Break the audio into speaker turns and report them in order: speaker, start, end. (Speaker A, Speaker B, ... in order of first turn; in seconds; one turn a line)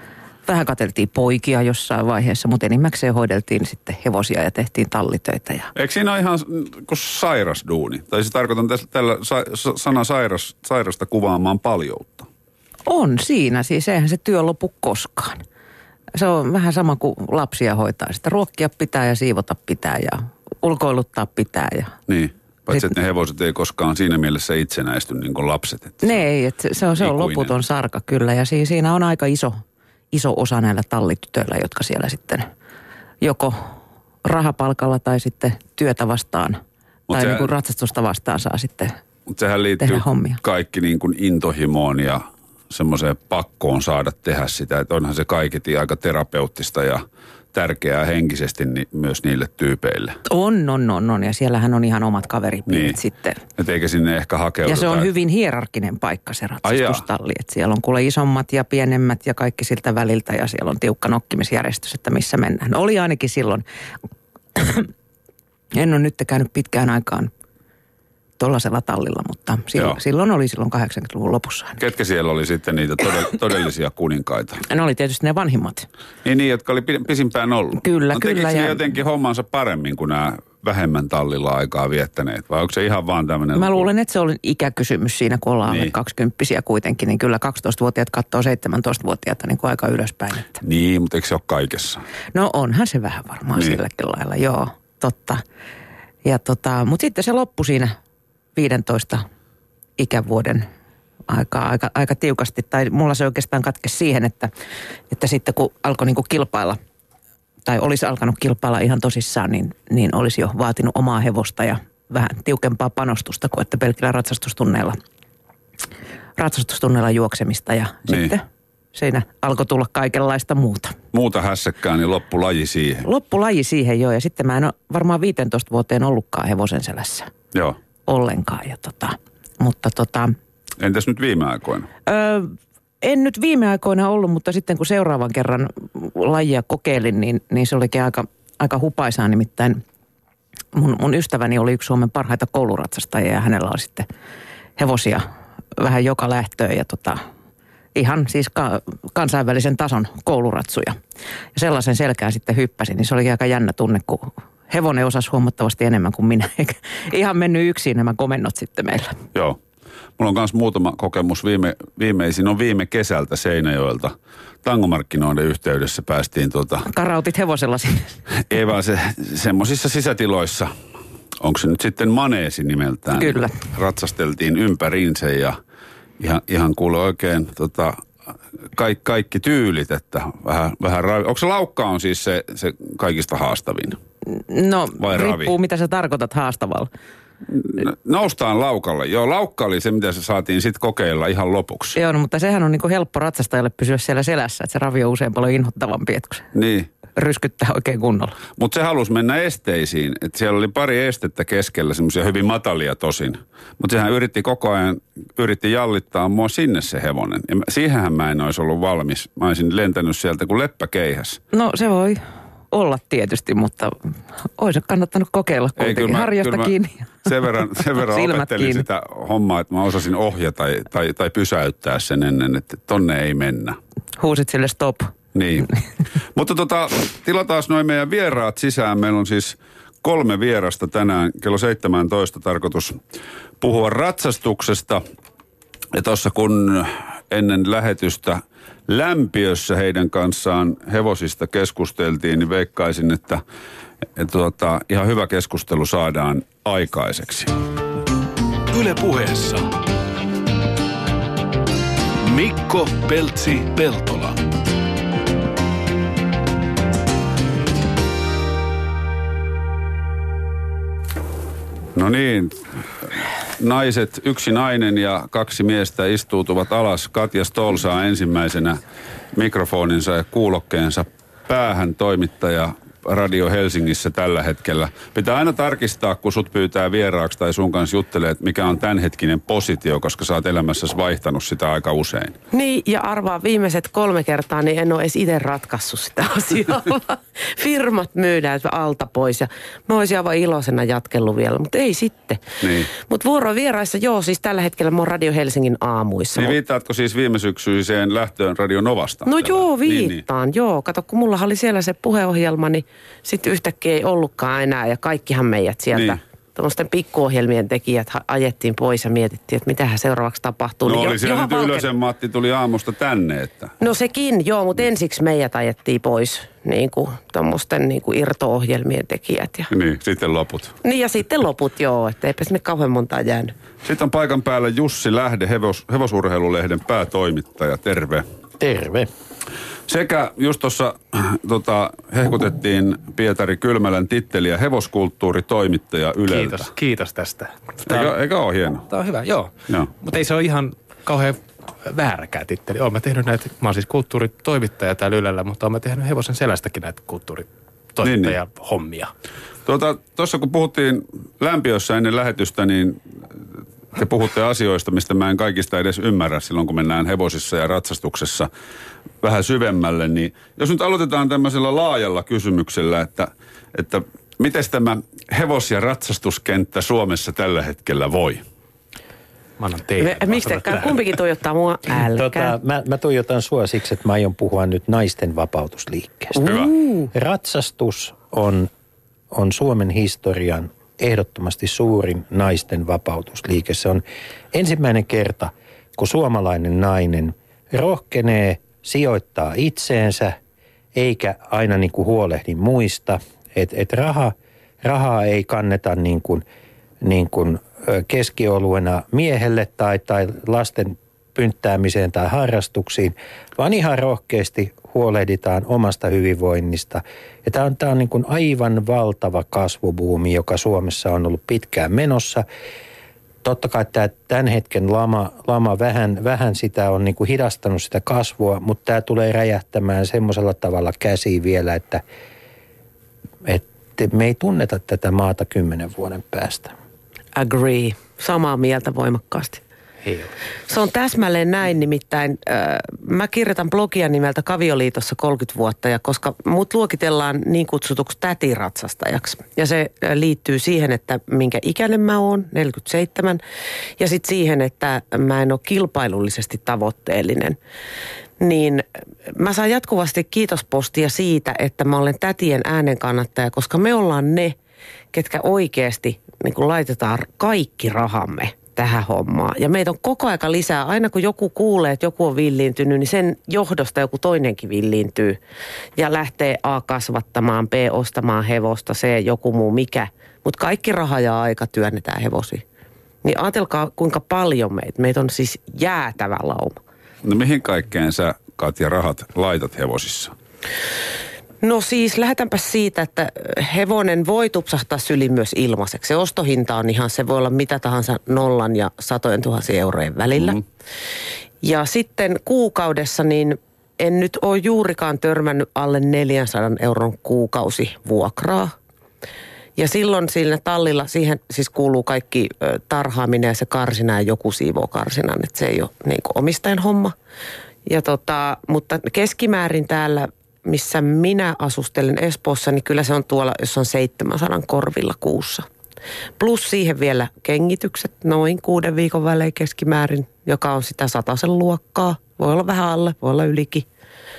Speaker A: 0.4-5.7
Speaker B: 5.7-12.3
Speaker A: 12.8-15.4
Speaker A: 16.1-21.9
Speaker B: 22.1-26.2
Speaker A: 26.0-29.6
Speaker B: 27.0-27.5
Speaker A: 30.1-32.4
Speaker A: 33.2-33.6
Speaker A: 34.2-36.6
Speaker B: 37.1-37.5
Speaker A: 37.1-38.9
Speaker B: 39.3-50.2
Speaker A: 39.8-40.4
Speaker A: 50.2-53.4
Speaker B: 52.7-53.0
Speaker B: 53.6-55.1
Speaker A: 54.6-63.6
Speaker B: 56.6-57.0
Speaker A: 64.5-64.9
Speaker A: 65.7-67.3
Speaker A: 68.4-71.8
Speaker B: 71.8-74.6
Speaker A: 74.7-75.9
Speaker B: 76.2-83.9
Speaker A: 77.8-78.9
Speaker A: 83.5-90.6
Speaker B: 85.7-85.9
Speaker B: 90.6-92.0
Speaker A: 92.3-95.4
Speaker A: 96.2-97.9
Speaker A: 98.5-99.2
Speaker A: 100.0-100.6
Speaker A: 101.3-104.5
Speaker A: 105.1-106.8
Speaker A: 107.7-115.0
Speaker A: 116.4-118.4
Speaker A: 118.9-121.0
Speaker B: 121.1-123.1
Speaker A: 123.0-127.3
Speaker A: 128.1-130.3
Speaker B: 130.8-131.9
Speaker A: 132.1-139.8
Speaker A: 140.7-144.1
Speaker A: 144.8-145.2
Speaker A: 145.8-147.2
Speaker A: 147.9-151.0
Speaker A: 151.5-159.2
Speaker B: 160.2-166.8
Speaker A: 166.8-168.2
Speaker B: 168.5-170.7
Speaker B: 171.4-175.6
Speaker A: 173.2-173.7
Speaker B: 176.2-178.0
Speaker B: 178.7-184.0
Speaker A: 184.3-186.9
Speaker B: 185.0-185.5
Speaker B: 187.5-191.9
Speaker A: 191.9-196.5
Speaker B: 196.5-196.9
Speaker A: 197.1-198.4
Speaker B: 198.6-211.4
Speaker A: 211.5-212.2
Speaker A: 212.7-213.9
Speaker A: 214.5-218.8
Speaker B: 215.8-223.8
Speaker A: 224.2-225.1
Speaker B: 225.3-225.8
Speaker B: 226.3-233.0
Speaker B: 233.6-235.0
Speaker B: 235.9-243.4
Speaker B: 244.2-247.5
Speaker C: 248.7-249.6
Speaker C: 252.3-254.3
Speaker B: 261.9-268.8
Speaker B: 269.3-282.4
Speaker D: 282.5-296.6
Speaker B: 292.6-292.9
Speaker B: 296.3-300.2
Speaker D: 299.2-311.9
Speaker B: 305.9-306.2
Speaker B: 310.9-313.7
Speaker D: 313.8-319.7
Speaker B: 319.7-320.8
Speaker D: 320.8-323.5
Speaker B: 323.8-328.2
Speaker E: 328.6-329.1
Speaker B: 329.9-336.7
Speaker F: 336.3-338.1
Speaker B: 337.9-338.8
Speaker F: 338.9-349.1
Speaker B: 348.0-348.3
Speaker B: 349.6-353.0
Speaker B: 353.9-358.5
Speaker B: 359.2-368.4
Speaker F: 369.6-371.1
Speaker D: 370.0-372.5
Speaker E: 372.1-376.5
Speaker D: 376.4-377.1
Speaker B: 376.4-376.7
Speaker E: 377.1-378.7
Speaker E: 379.3-390.4
Speaker E: 390.9-396.4
Speaker E: 397.0-412.4
Speaker E: 413.4-422.0
Speaker E: 423.4-426.7
Speaker D: 427.3-429.6
Speaker F: 430.0-430.3
Speaker D: 430.7-443.4
Speaker D: 444.0-447.6
Speaker D: 448.4-454.5
Speaker D: 455.1-465.4
Speaker D: 466.0-472.6
Speaker D: 473.2-476.7
Speaker B: 477.2-480.3
Speaker D: 481.6-490.6
Speaker D: 491.6-498.7
Speaker D: 499.8-507.1
Speaker D: 507.9-515.6
Speaker D: 516.4-523.9